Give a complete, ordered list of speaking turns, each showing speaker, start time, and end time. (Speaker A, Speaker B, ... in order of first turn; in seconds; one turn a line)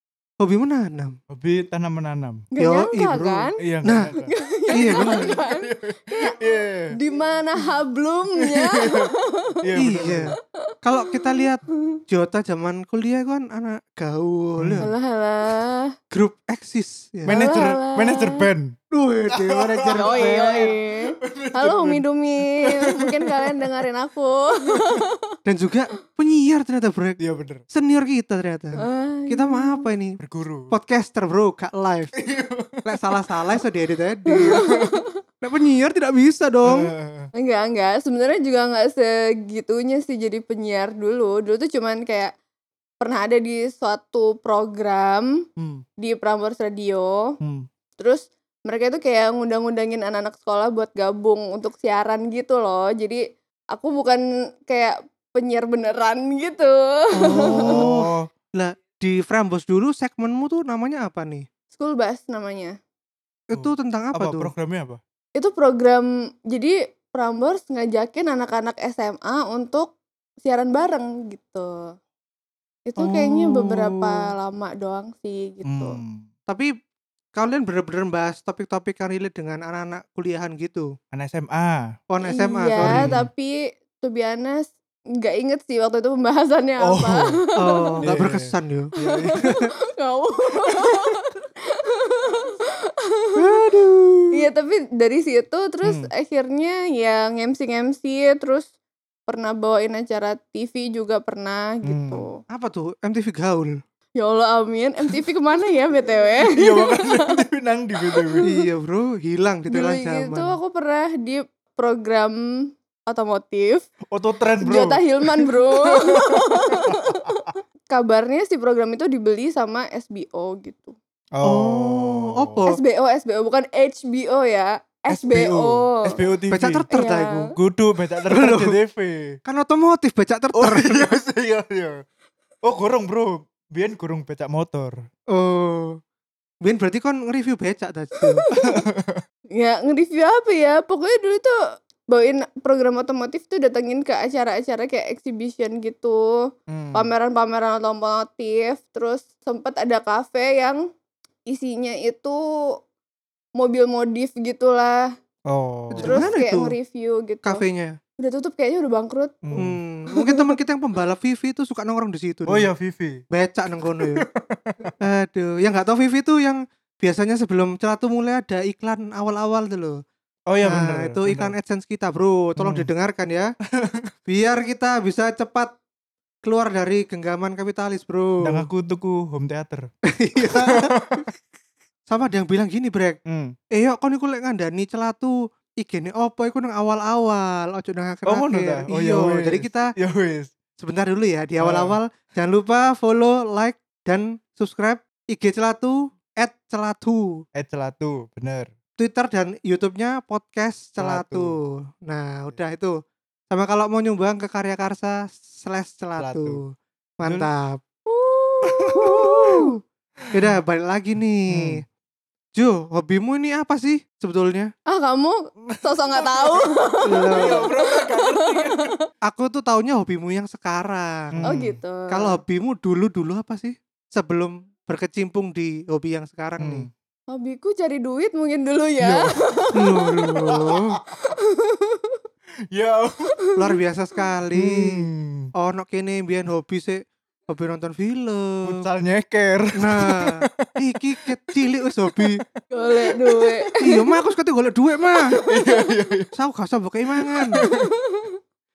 Speaker A: 0.4-1.1
Speaker B: 1.3-2.4
Speaker C: 2.5-3.6
Speaker A: 2.6-4.1
Speaker B: 3.6-7.0
Speaker C: 4.2-6.4
Speaker A: 4.7-5.4
Speaker C: 6.9-9.5
Speaker B: 8.4-10.4
Speaker A: 9.8-14.9
Speaker C: 10.7-12.0
Speaker B: 14.6-14.9
Speaker C: 14.8-15.9
Speaker A: 16.1-17.4
Speaker B: 17.3-18.7
Speaker C: 17.3-18.5
Speaker A: 18.9-20.7
Speaker B: 19.3-23.9
Speaker C: 19.9-25.2
Speaker A: 25.4-27.2
Speaker B: 27.2-27.6
Speaker A: 27.7-30.2
Speaker C: 28.8-29.9
Speaker B: 30.2-30.7
Speaker A: 30.7-32.2
Speaker B: 32.2-33.0
Speaker A: 32.9-34.6
Speaker C: 34.3-35.2
Speaker B: 34.5-35.0
Speaker A: 35.4-36.9
Speaker B: 36.6-37.3
Speaker C: 37.4-42.3
Speaker C: 43.0-45.3
Speaker B: 45.6-45.8
Speaker C: 46.0-47.4
Speaker B: 47.4-47.7
Speaker C: 48.0-53.2
Speaker C: 53.7-57.8
Speaker A: 57.1-61.5
Speaker B: 57.3-58.3
Speaker C: 61.7-62.8
Speaker A: 63.5-64.5
Speaker B: 63.5-65.0
Speaker C: 65.4-71.9
Speaker C: 72.9-76.0
Speaker A: 73.0-74.1
Speaker B: 75.7-76.3
Speaker A: 77.4-80.9
Speaker B: 81.1-81.9
Speaker A: 82.1-83.2
Speaker C: 82.2-88.0
Speaker B: 82.8-83.3
Speaker B: 86.8-87.4
Speaker A: 87.6-88.9
Speaker B: 88.0-89.5
Speaker C: 89.1-93.4
Speaker A: 90.7-91.0
Speaker A: 93.4-94.4
Speaker C: 94.3-98.7
Speaker C: 99.3-102.4
Speaker B: 101.9-102.2
Speaker A: 102.5-103.8
Speaker C: 104.2-107.3
Speaker B: 106.5-108.5
Speaker C: 108.0-108.5
Speaker A: 108.5-110.5
Speaker C: 109.7-112.4
Speaker C: 113.1-113.9
Speaker B: 114.1-117.5
Speaker C: 114.6-121.0
Speaker B: 121.3-122.6
Speaker A: 121.4-122.8
Speaker C: 122.7-126.2
Speaker B: 125.1-126.9
Speaker A: 126.5-127.5
Speaker C: 126.9-127.4
Speaker B: 127.5-129.4
Speaker A: 128.3-128.8
Speaker A: 129.5-131.1
Speaker B: 130.6-132.0
Speaker B: 132.7-135.0
Speaker A: 135.3-136.0
Speaker A: 136.6-138.4
Speaker C: 138.3-138.8
Speaker B: 138.5-139.2
Speaker C: 139.6-141.5
Speaker C: 142.1-146.4
Speaker B: 146.7-147.1
Speaker C: 146.9-150.8
Speaker C: 151.5-152.4
Speaker C: 153.6-155.1
Speaker B: 155.5-156.3
Speaker A: 155.9-156.8
Speaker C: 156.0-157.6
Speaker A: 157.4-158.0
Speaker C: 158.2-159.6
Speaker B: 159.4-159.8
Speaker A: 159.6-162.7
Speaker B: 162.5-163.2
Speaker A: 163.3-164.2
Speaker B: 164.0-164.9
Speaker A: 165.0-170.0
Speaker B: 170.5-171.5
Speaker A: 170.7-173.5
Speaker B: 172.6-172.9
Speaker B: 173.8-174.1
Speaker A: 174.3-175.8
Speaker A: 176.4-178.7
Speaker B: 178.4-179.8
Speaker A: 180.1-180.9
Speaker B: 180.4-181.2
Speaker A: 182.1-183.2
Speaker B: 183.3-183.5
Speaker A: 183.7-189.9
Speaker B: 188.3-190.5
Speaker A: 190.8-197.3
Speaker B: 191.6-192.0
Speaker B: 197.6-198.7
Speaker A: 199.0-202.9
Speaker B: 201.0-201.5
Speaker A: 203.5-207.8
Speaker B: 206.2-206.6
Speaker C: 208.1-209.7
Speaker B: 208.7-209.5
Speaker A: 208.9-209.7
Speaker A: 210.3-211.8
Speaker B: 211.5-211.8
Speaker A: 212.6-214.7
Speaker C: 214.9-218.9
Speaker B: 215.7-219.0
Speaker A: 217.1-217.7
Speaker A: 219.3-221.6
Speaker B: 221.3-221.8
Speaker C: 221.4-222.4
Speaker A: 222.1-226.9
Speaker B: 226.6-226.9
Speaker C: 227.3-230.4
Speaker B: 229.0-229.4
Speaker A: 229.8-231.0
Speaker B: 230.5-231.2
Speaker C: 231.2-232.2
Speaker B: 232.7-233.3
Speaker A: 233.6-238.8
Speaker B: 234.6-235.5
Speaker B: 238.6-240.7
Speaker A: 239.8-242.4
Speaker B: 241.5-243.7
Speaker C: 242.7-243.8
Speaker A: 243.8-245.3
Speaker C: 245.2-245.8
Speaker B: 245.3-246.3
Speaker A: 246.3-247.6
Speaker B: 247.2-247.9
Speaker C: 247.6-248.4